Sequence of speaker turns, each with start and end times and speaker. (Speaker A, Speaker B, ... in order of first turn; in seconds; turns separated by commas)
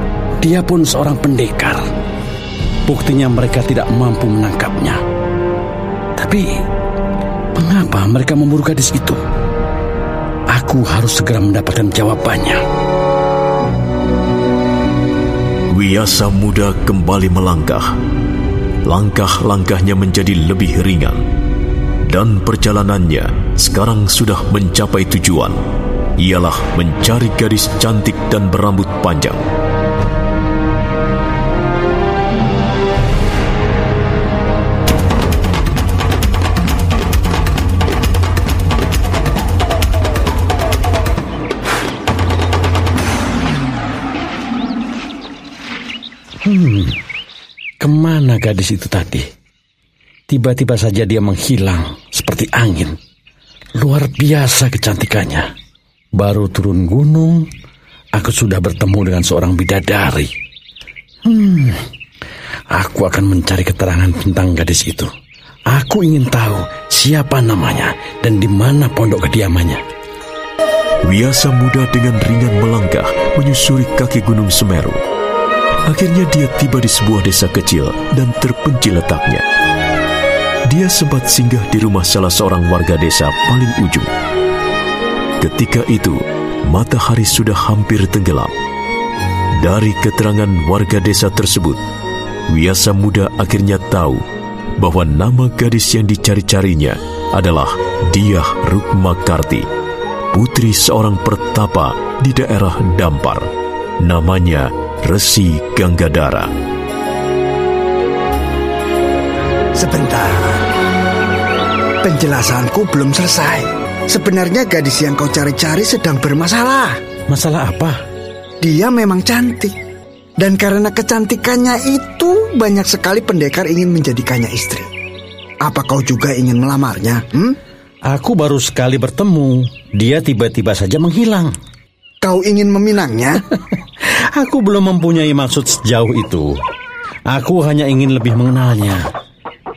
Speaker A: 0.4-1.9, Speaker A: 2.9-5.0, Speaker A: 6.2-6.5, Speaker A: 7.5-9.2, Speaker A: 10.5-12.6, Speaker B: 15.7-17.9, Speaker B: 18.9-21.2, Speaker B: 22.1-25.6, Speaker B: 26.2-29.4, Speaker A: 46.4-47.0, Speaker A: 47.8-49.3, Speaker A: 50.3-53.0, Speaker A: 53.8-55.5, Speaker A: 56.1-57.5, Speaker A: 58.1-60.3, Speaker A: 61.2-61.8, Speaker A: 62.7-65.1, Speaker A: 65.7-69.8, Speaker B: 71.0-75.0, Speaker B: 75.9-79.4, Speaker B: 80.7-84.1, Speaker B: 85.4-88.5, Speaker B: 89.6-91.8, Speaker B: 92.5-94.2, Speaker B: 94.8-99.7, Speaker B: 100.3-103.5, Speaker B: 104.0-106.5, Speaker C: 109.8-110.7, Speaker C: 112.0-117.0, Speaker A: 117.3-118.0, Speaker C: 118.6-119.8, Speaker C: 120.4-124.9, Speaker C: 125.6-127.6, Speaker A: 128.1-131.6, Speaker C: 132.2-133.4, Speaker A: 134.0-136.6, Speaker A: 137.3-139.0